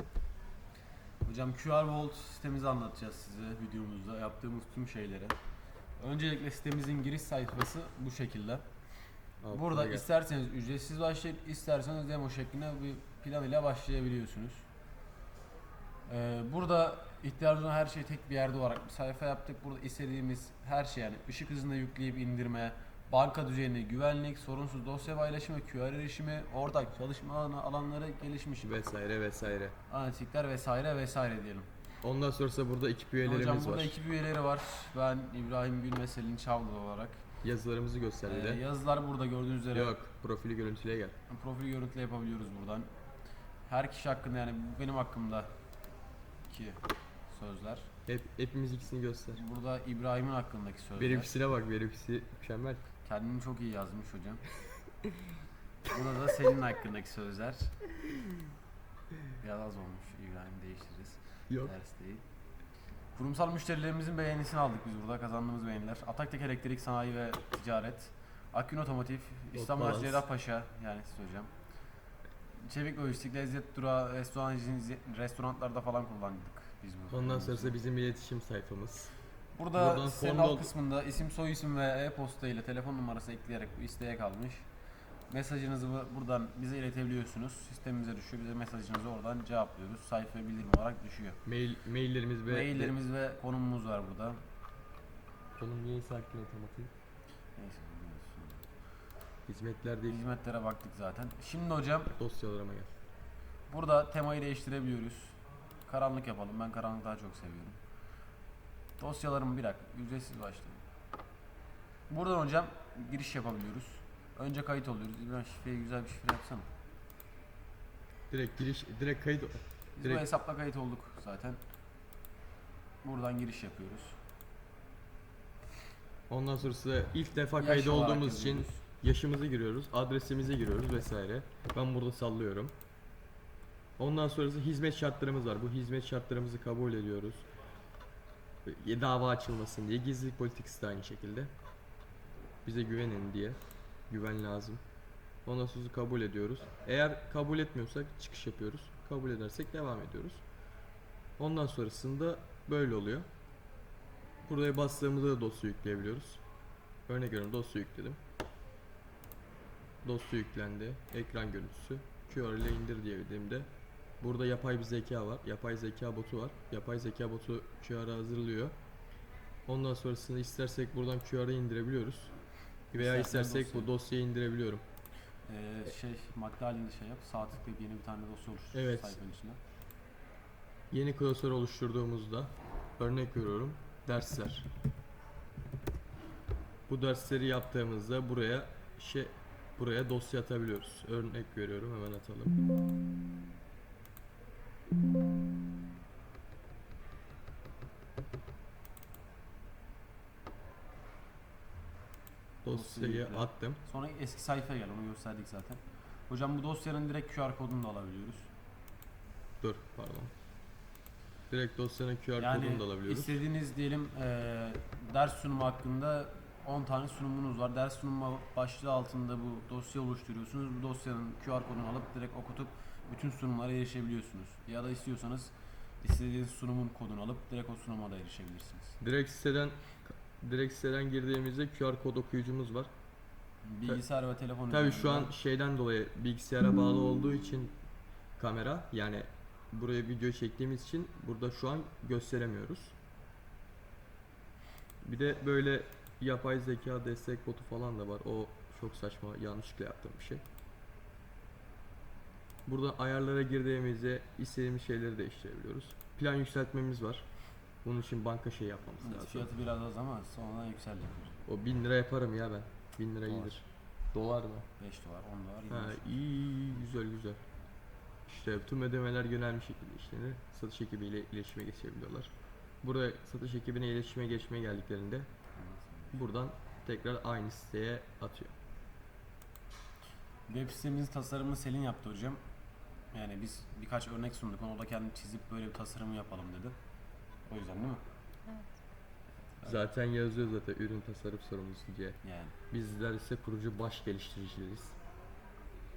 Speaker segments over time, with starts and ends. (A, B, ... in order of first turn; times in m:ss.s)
0:01.2-0:05.4 A
0:06.0-0:08.6 A
0:09.4-0:10.0 B
0:09.5-0:14.6 A
0:16.1-0:28.8 A
0:28.6-0:29.8 B
0:29.9-0:31.7 A
0:32.0-0:34.0 B
0:33.2-0:37.2 A
0:37.4-0:38.6 B
0:38.3-0:40.0 A
0:39.7-0:41.2 B
0:41.3-0:42.9 A
0:43.7-0:45.5 A
0:46.5-0:47.9 A
0:48.1-0:49.4 B
0:49.3-0:51.3 A
0:51.0-0:52.8 B
0:53.0-0:54.4 A
0:55.8-0:57.8 A
0:59.4-1:02.2 A
1:03.1-1:11.5 A
1:09.5-1:10.2 B
1:12.6-1:17.8 A
1:17.1-1:19.1 B
1:19.5-1:24.7 A
1:19.7-1:20.7 B
1:25.3-1:31.4 A
1:31.4-1:32.9 B
1:32.5-1:34.4 A
1:35.6-1:36.9 B
1:37.6-1:38.7 A
1:39.5-1:40.2 B
1:40.1-1:42.1 A
1:42.2-1:42.9 B
1:43.7-1:47.8 A
1:49.0-1:50.8 A
1:52.1-1:56.7 A
1:58.3-2:00.2 B
2:00.0-2:01.6 A
2:03.0-2:04.2 A
2:06.3-2:12.7 B
2:07.6-2:08.8 A
2:14.0-2:17.4 B
2:18.6-2:21.5 B
2:22.6-2:24.8 B
2:25.4-2:30.4 B
2:31.4-2:33.3 B
2:34.4-2:36.4 B
2:37.0-2:38.2 B
2:40.0-2:43.7 B
2:44.2-2:48.7 B
2:49.7-2:52.4 B
2:52.9-2:54.8 B
2:52.9-2:53.9 A
2:55.4-2:59.6 A
2:58.7-2:59.2 B
3:00.9-3:04.7 B
3:06.9-3:12.5 B
3:22.6-3:23.8 B
3:22.7-3:28.5 A
3:29.6-3:30.3 B
3:31.5-3:33.4 B
3:32.4-3:49.0 A
3:49.0-3:52.9 B
3:53.6-3:55.3 A
3:54.7-3:57.7 B
3:58.4-4:02.9 B
4:05.0-4:10.4 B
4:12.6-4:19.5 B
4:19.0-4:21.4 A
4:21.4-4:24.7 B
4:23.2-4:23.6 A
4:24.8-4:26.2 A
4:25.7-4:27.4 B
4:28.2-4:35.3 B
4:35.6-4:36.2 A
4:36.1-4:38.5 B
4:40.5-4:42.4 A
4:43.1-4:46.7 A
4:47.5-4:48.0 A
4:49.6-4:55.0 B
4:52.2-4:52.5 A